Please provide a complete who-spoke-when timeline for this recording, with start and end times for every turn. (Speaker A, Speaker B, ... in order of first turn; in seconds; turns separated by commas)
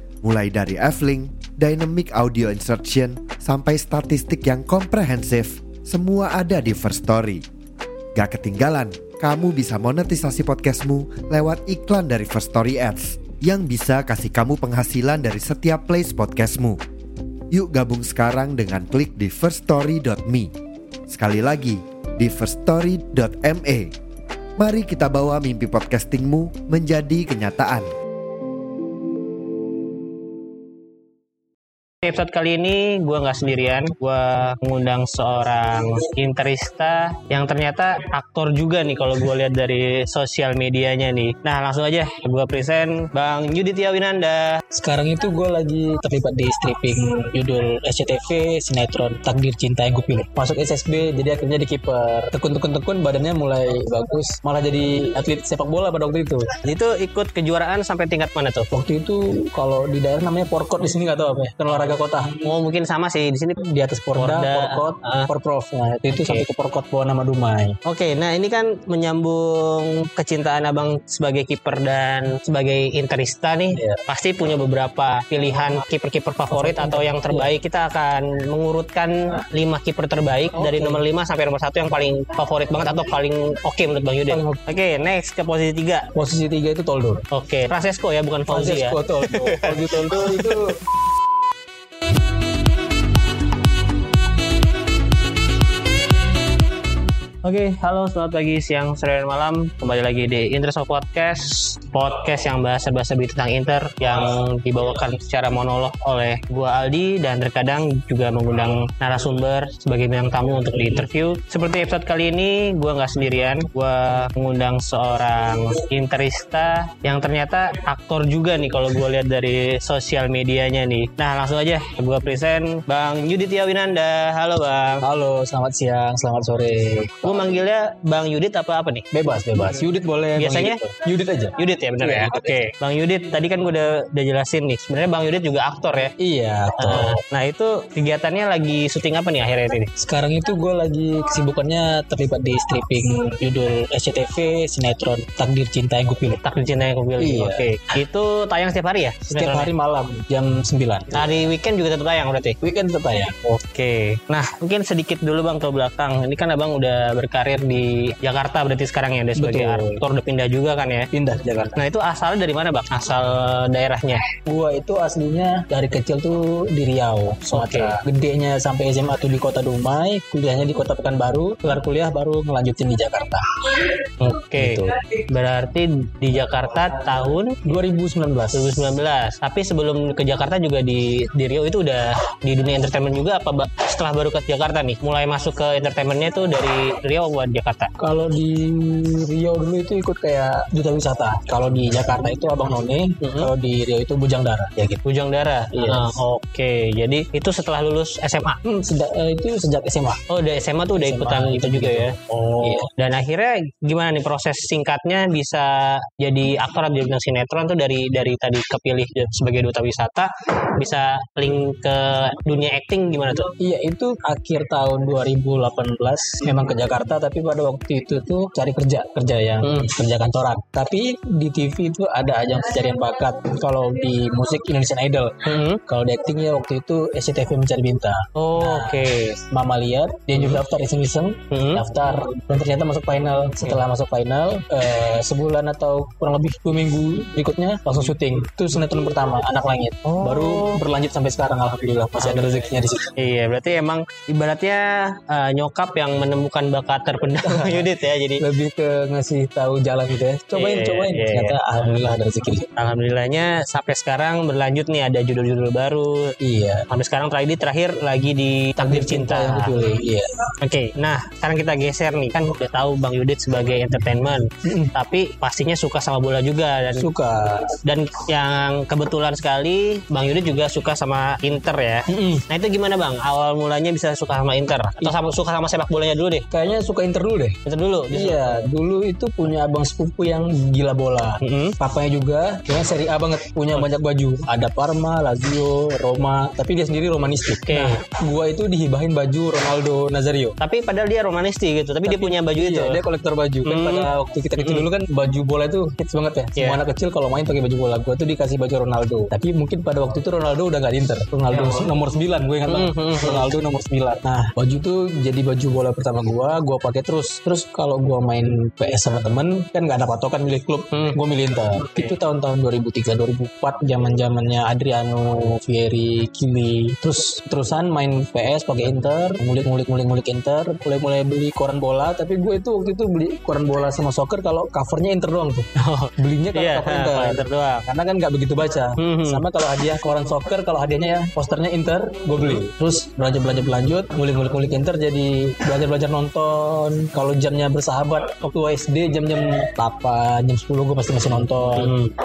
Speaker A: 0.2-7.4, Speaker A: 8.2-16.8, Speaker A: 17.5-20.5, Speaker A: 21.1-23.9, Speaker A: 24.6-27.9, Speaker B: 32.0-44.6, Speaker C: 44.7-56.5, Speaker B: 56.6-58.7, Speaker C: 58.7-62.4, Speaker B: 62.4-63.6, Speaker C: 63.6-67.8, Speaker B: 64.1-65.3, Speaker B: 67.8-86.1, Speaker C: 73.7-74.0, Speaker C: 76.5-77.5, Speaker C: 80.5-81.0, Speaker C: 84.3-84.6, Speaker C: 86.2-87.2, Speaker B: 87.3-90.7, Speaker C: 88.5-90.8, Speaker B: 97.4-125.0, Speaker C: 125.0-127.6, Speaker B: 127.2-129.1, Speaker C: 129.1-132.6, Speaker B: 130.4-130.8, Speaker B: 131.6-136.1, Speaker C: 136.2-137.2, Speaker B: 136.8-139.9, Speaker C: 140.0-146.4, Speaker B: 146.4-149.7, Speaker C: 147.2-147.7, Speaker C: 149.3-151.5, Speaker B: 151.1-152.6, Speaker C: 152.6-153.3, Speaker B: 153.4-161.1, Speaker C: 159.4-160.0, Speaker C: 161.1-161.8, Speaker B: 161.8-164.2, Speaker C: 164.5-173.7, Speaker B: 167.5-168.0, Speaker B: 174.2-177.6, Speaker C: 174.6-174.9, Speaker C: 177.7-178.9, Speaker B: 178.5-187.9, Speaker C: 188.0-195.0, Speaker B: 193.2-193.5, Speaker B: 195.0-198.6, Speaker C: 195.7-196.1, Speaker C: 198.6-200.2, Speaker B: 200.3-213.5, Speaker C: 201.0-202.1, Speaker C: 202.6-202.9, Speaker C: 213.6-243.1, Speaker B: 219.6-219.9, Speaker B: 225.4-225.8, Speaker B: 228.3-229.4, Speaker B: 230.3-230.6, Speaker B: 231.5-231.8, Speaker B: 240.1-240.8, Speaker B: 242.2-248.4, Speaker C: 247.4-252.7, Speaker B: 250.5-251.6, Speaker B: 252.8-256.4, Speaker C: 256.4-256.9, Speaker B: 256.9-259.8, Speaker C: 258.8-260.3, Speaker B: 260.6-267.1, Speaker C: 264.6-264.9, Speaker C: 267.0-267.8, Speaker B: 267.8-276.5, Speaker C: 272.1-272.4, Speaker C: 276.5-277.6, Speaker B: 277.6-278.5, Speaker C: 278.1-290.6, Speaker B: 281.4-281.8, Speaker B: 287.7-288.0, Speaker B: 290.6-293.0, Speaker C: 292.0-325.7, Speaker B: 293.7-294.9, Speaker B: 302.7-303.5, Speaker B: 325.8-327.9, Speaker C: 326.2-341.9, Speaker B: 329.0-329.4, Speaker B: 341.8-342.1